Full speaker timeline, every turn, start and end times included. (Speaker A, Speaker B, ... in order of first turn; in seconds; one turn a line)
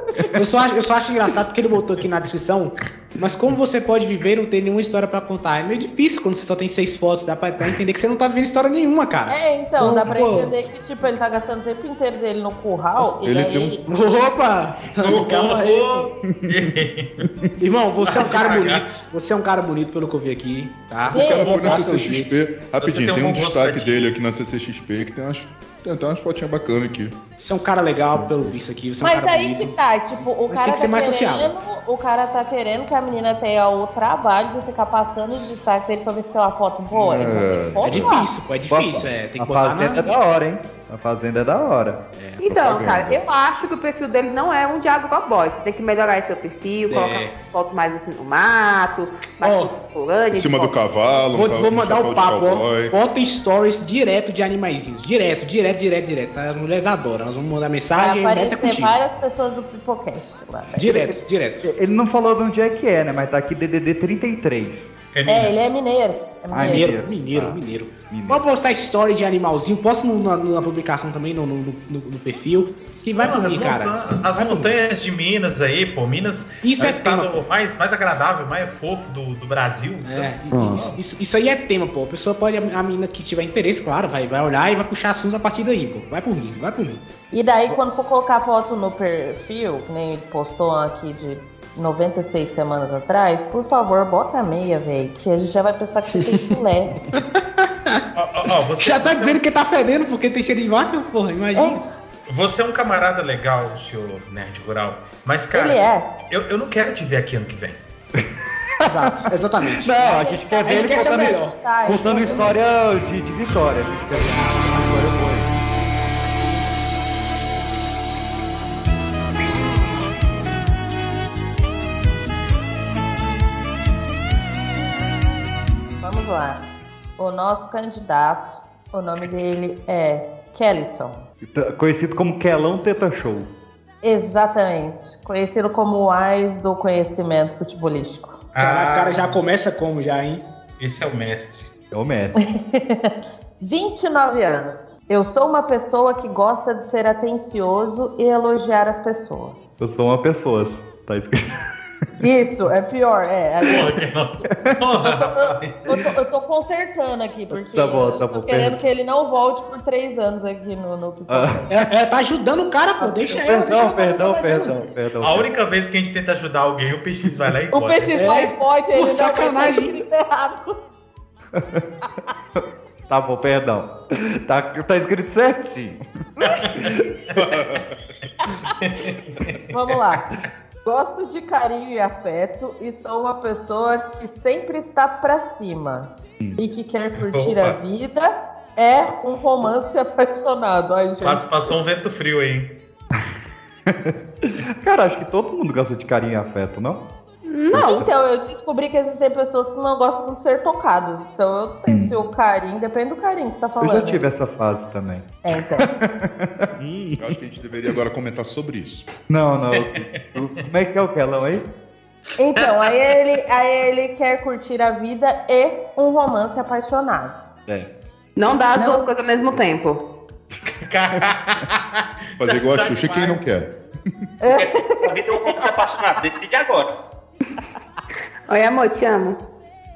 Speaker A: 0.3-10.5
Speaker B: 9.3-13.8
Speaker C: 13.0-13.8
Speaker A: 13.9-15.9
Speaker D: 15.0-17.3
Speaker A: 17.6-22.4
Speaker D: 18.0-18.9
Speaker C: 21.1-27.2
Speaker B: 21.1-21.9
Speaker D: 21.5-21.8
Speaker D: 22.8-24.1
Speaker A: 27.4-29.7
Speaker B: 29.0-38.3
Speaker A: 30.5-31.5
Speaker C: 36.9-38.1
Speaker A: 37.8-40.1
Speaker E: 38.7-42.0
Speaker A: 42.2-42.4
Speaker F: 42.4-50.8
Speaker C: 42.5-43.2
Speaker A: 46.9-47.4
Speaker A: 49.4-49.7
Speaker C: 50.3-52.9
Speaker A: 51.3-59.0
Speaker B: 58.0-61.1
Speaker A: 60.8-61.7
Speaker E: 61.6-64.9
Speaker D: 65.1-65.8
Speaker B: 65.3-66.9
Speaker E: 66.5-68.4
Speaker A: 66.6-74.7
Speaker D: 73.2-80.4
Speaker A: 76.6-77.4
Speaker A: 80.0-87.0
Speaker B: 87.3-96.9
Speaker A: 96.1-96.6
Speaker D: 98.2-99.4
Speaker A: 98.8-101.8
Speaker B: 101.5-101.9
Speaker D: 102.3-107.8
Speaker B: 105.5-106.1
Speaker A: 108.8-112.5
Speaker E: 108.9-109.2
Speaker E: 109.7-115.5
Speaker B: 110.0-112.5
Speaker A: 114.1-114.8
Speaker B: 126.0-126.6
Speaker B: 127.2-131.2
Speaker E: 131.4-133.5
Speaker B: 134.0-138.4
Speaker D: 138.6-139.4
Speaker A: 138.6-140.4
Speaker D: 140.8-141.7
Speaker E: 141.9-142.4
Speaker B: 142.4-149.8
Speaker E: 149.8-151.3
Speaker B: 152.2-153.9
Speaker D: 153.7-155.9
Speaker B: 155.0-161.7
Speaker E: 157.5-158.8
Speaker E: 161.3-161.7
Speaker A: 161.7-164.7
Speaker E: 163.3-165.5
Speaker D: 165.2-168.3
Speaker B: 167.7-170.8
Speaker A: 168.2-170.0
Speaker E: 171.6-171.8
Speaker E: 172.6-176.0
Speaker D: 176.4-177.7
Speaker C: 177.4-177.8
Speaker D: 178.7-179.6
Speaker B: 179.7-180.2
Speaker B: 180.8-191.4
Speaker D: 187.3-187.8
Speaker D: 191.2-192.7
Speaker E: 193.9-197.0
Speaker F: 197.5-198.0
Speaker E: 197.7-198.1
Speaker B: 197.8-204.3
Speaker E: 201.9-202.2
Speaker E: 203.8-207.3
Speaker B: 205.4-205.9
Speaker C: 207.2-209.1
Speaker E: 209.3-211.7
Speaker D: 209.8-210.1
Speaker B: 212.4-217.5
Speaker F: 218.4-220.0
Speaker B: 218.8-219.0
Speaker D: 220.8-223.4
Speaker C: 222.4-223.7
Speaker B: 224.4-225.1
Speaker G: 224.6-226.9
Speaker F: 228.5-229.4